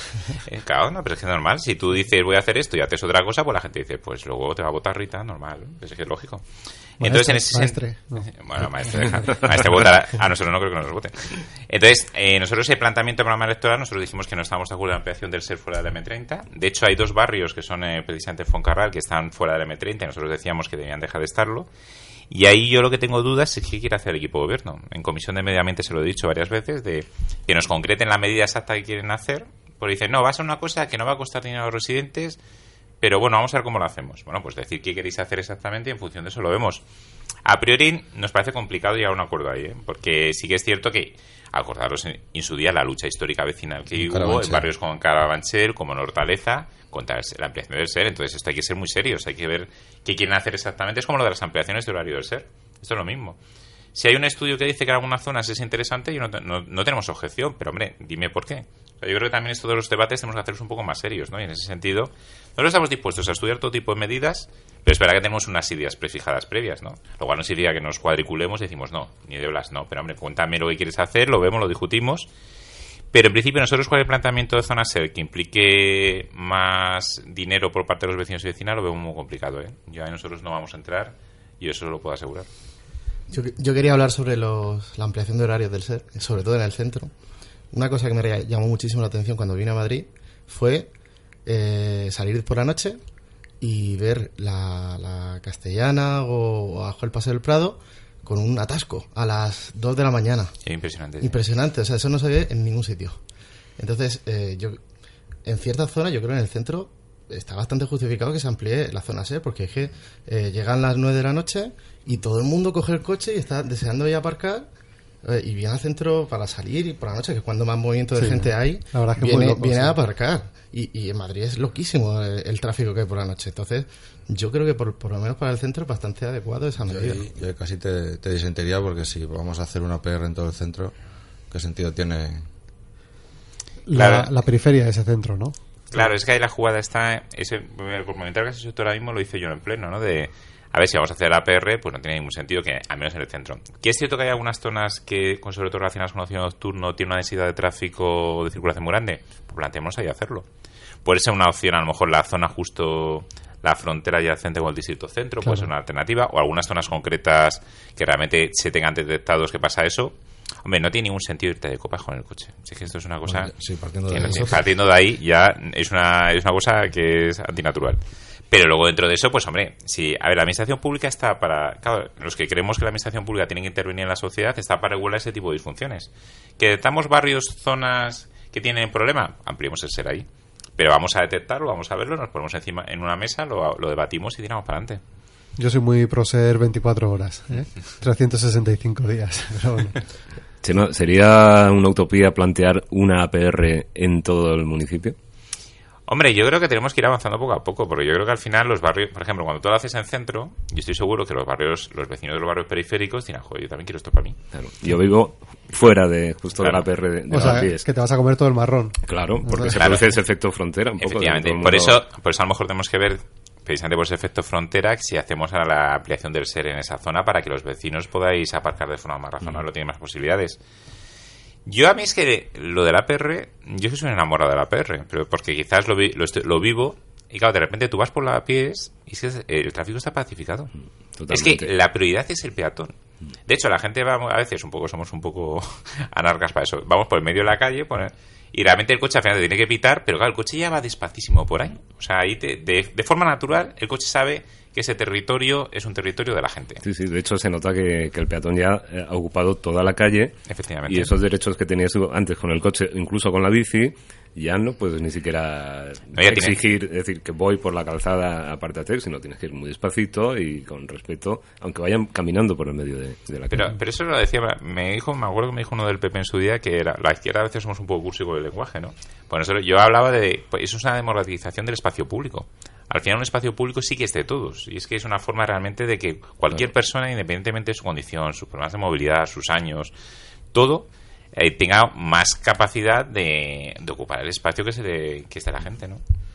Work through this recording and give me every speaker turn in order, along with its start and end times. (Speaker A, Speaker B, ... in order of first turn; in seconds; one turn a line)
Speaker A: 0.3-6.5
Speaker A: 7.0-21.7
Speaker B: 7.0-8.3
Speaker A: 22.3-32.4
Speaker A: 33.0-36.8
Speaker A: 37.4-53.4
Speaker C: 44.0-44.7
Speaker A: 53.9-72.3
Speaker A: 73.1-82.5
Speaker D: 83.3-87.1
Speaker D: 87.7-90.9
Speaker D: 91.4-93.0
Speaker D: 93.6-100.5
Speaker A: 100.6-101.4
Speaker D: 101.2-103.2
Speaker D: 103.8-104.8
Speaker D: 105.4-114.7
Speaker D: 115.2-127.2
Speaker B: 118.1-120.0
Speaker C: 126.8-130.9
Speaker C: 131.5-132.5
Speaker B: 133.8-135.5
Speaker A: 133.9-134.3
Speaker A: 135.9-150.5
Speaker A: 151.0-163.5
Speaker B: 155.4-155.7
Speaker C: 163.2-164.7
Speaker A: 164.1-185.0
Speaker B: 185.6-190.0
Speaker E: 190.6-195.1
Speaker A: 196.1-204.4
Speaker E: 204.5-207.8
Speaker B: 207.3-209.8
Speaker E: 209.1-212.0
Speaker A: 209.7-210.1
Speaker A: 211.0-220.6
Speaker A: 221.7-230.7
Speaker E: 231.1-231.7
Speaker A: 231.3-246.8
Speaker E: 246.8-250.3
Speaker A: 250.5-251.1
Speaker E: 250.8-263.7
Speaker A: 256.2-256.6
Speaker A: 263.5-279.9
Speaker A: 280.5-286.0